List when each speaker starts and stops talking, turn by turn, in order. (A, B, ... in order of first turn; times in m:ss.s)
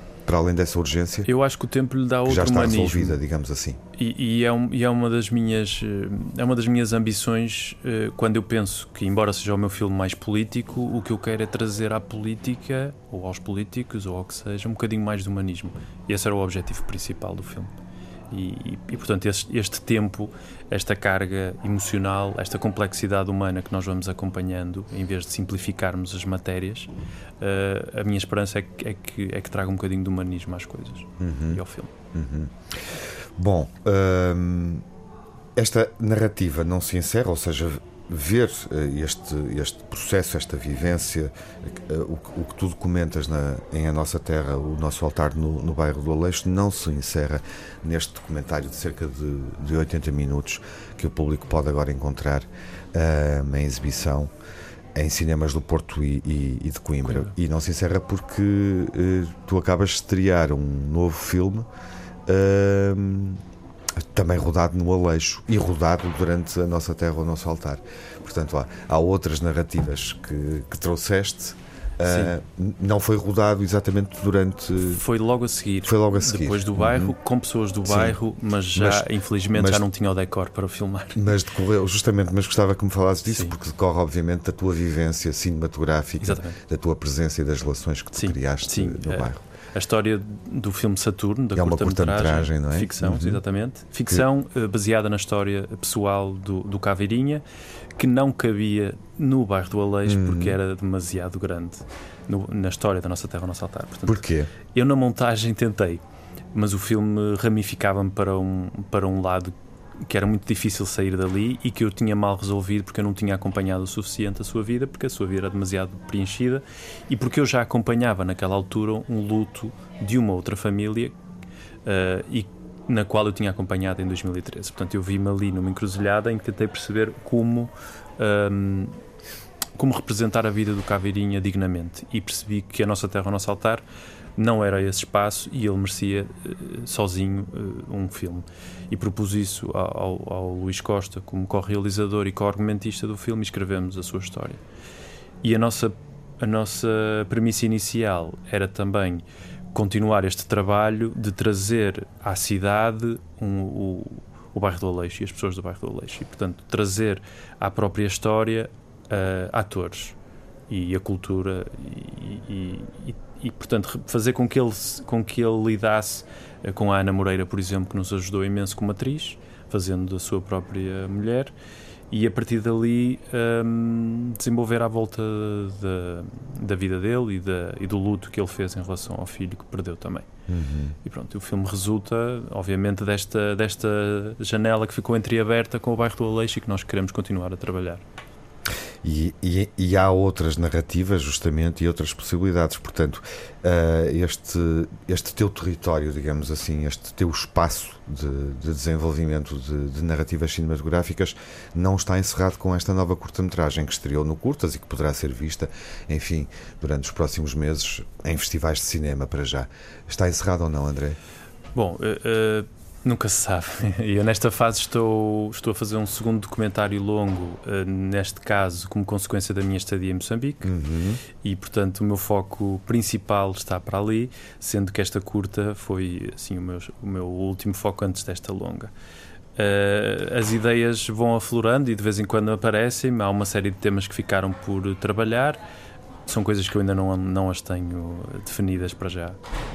0:00.3-0:01.3 A
0:01.2-0:03.2 B
0:02.2-0:03.8 A
0:04.0-0:17.7 B
0:18.3-0:31.9 B
0:31.2-0:31.6 A
0:32.1-0:34.8 A
0:35.6-0:54.3 A
0:55.0-1:01.7 A
0:57.0-0:57.3 B
1:02.3-1:03.4 A
1:04.0-1:15.0 A
1:12.0-1:12.3 B
1:14.8-1:21.2 B
1:15.8-1:17.2 A
1:17.8-1:18.2 A
1:18.8-1:19.8 A
1:21.2-1:29.4 A
1:23.3-1:23.6 B
1:26.2-1:26.6 B
1:28.2-1:37.4 B
1:31.6-1:33.4 A
1:38.0-1:46.0 B
1:40.1-1:40.6 A
1:44.1-1:44.5 A
1:46.5-1:49.5 B
1:50.1-2:01.2 B
2:01.8-2:09.0 B
2:09.8-2:13.8 B
2:14.4-2:24.6 B
2:25.4-2:40.2 B
2:40.7-2:51.5 B
2:52.1-3:00.3 B
3:00.5-3:01.0 A
3:01.0-3:08.0 B
3:09.0-3:31.2 A
3:31.8-3:40.7 B
3:40.6-3:41.2 A
3:41.4-3:48.9 B
3:49.6-3:55.6 B
3:56.3-3:59.4 B